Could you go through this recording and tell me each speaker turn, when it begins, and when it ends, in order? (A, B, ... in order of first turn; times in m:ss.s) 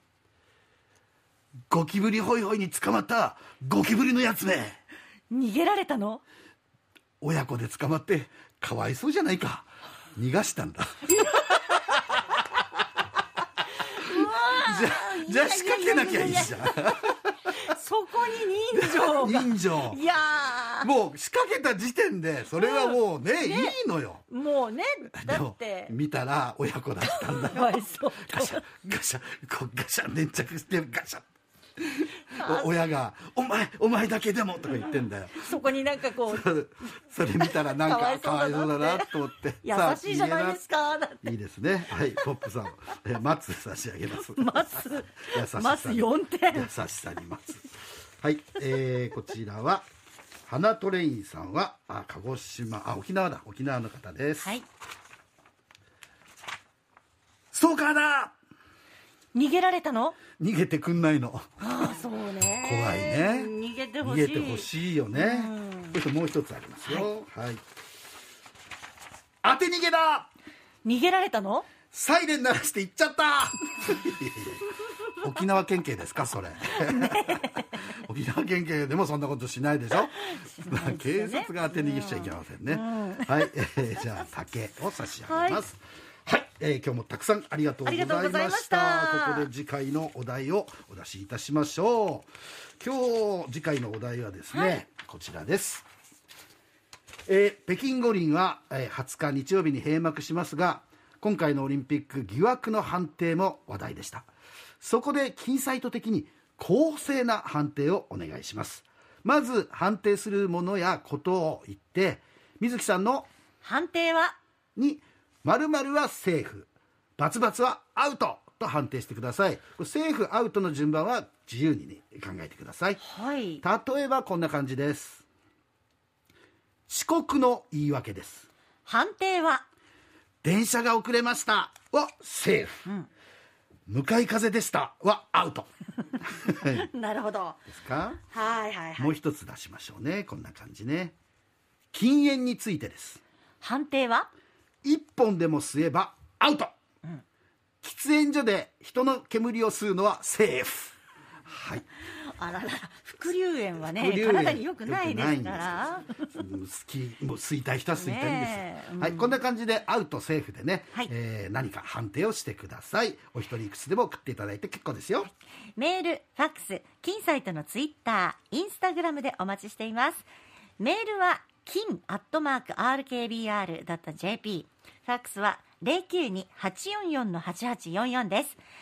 0:01.7-0:04.8 A
0:05.3-0:06.2 B
0:07.2-0:12.4 A
0:11.1-0:11.6 B
0:13.8-0:20.9 B
0:14.2-0:17.5 A
0:18.8-0:20.0 A
0:20.8-0:24.2 A
0:22.6-0:23.8 B
0:24.3-0:25.9 B
0:25.1-0:31.2 A
0:27.0-0:28.6 B
0:31.8-0:35.6 A
0:32.4-0:32.7 B
0:35.3-0:36.5 B
0:36.3-0:40.6 A
0:37.4-0:39.1 B
0:39.6-0:41.3 B
0:41.2-0:47.7 A
0:44.1-0:46.7 B
0:48.2-0:49.9 A
0:50.5-0:54.6 A
0:57.5-0:58.4 A
0:59.3-1:00.2 B
1:00.4-1:01.5 A
1:01.6-1:06.0 B
1:02.6-1:07.6 A
1:06.8-1:07.1 B
1:09.4-1:10.3 A
1:10.8-1:11.7 B
1:11.9-1:35.9 A
1:16.7-1:17.9 B
1:20.1-1:23.5 B
1:25.2-1:25.6 B
1:27.8-1:29.5 B
1:37.3-1:44.3 A
1:44.8-1:53.3 A
1:53.6-1:54.4 B
1:54.8-2:03.0 A
2:03.0-2:03.6 B
2:03.6-2:05.2 A
2:06.9-2:08.5 A
2:08.9-2:09.7 B
2:10.4-2:12.8 A
2:13.9-2:15.7 A
2:16.2-2:16.9 A
2:16.6-2:17.6 B
2:17.7-2:18.2 A
2:18.3-2:19.1 B
2:19.0-2:21.2 A
2:21.9-2:23.2 A
2:23.6-2:24.3 B
2:24.8-2:26.7 A
2:27.8-2:31.0 A
2:31.5-2:31.8 A
2:32.1-2:36.3 B
2:34.0-2:35.8 A
2:36.3-2:45.3 A
2:38.0-2:39.4 B
2:45.8-2:58.6 B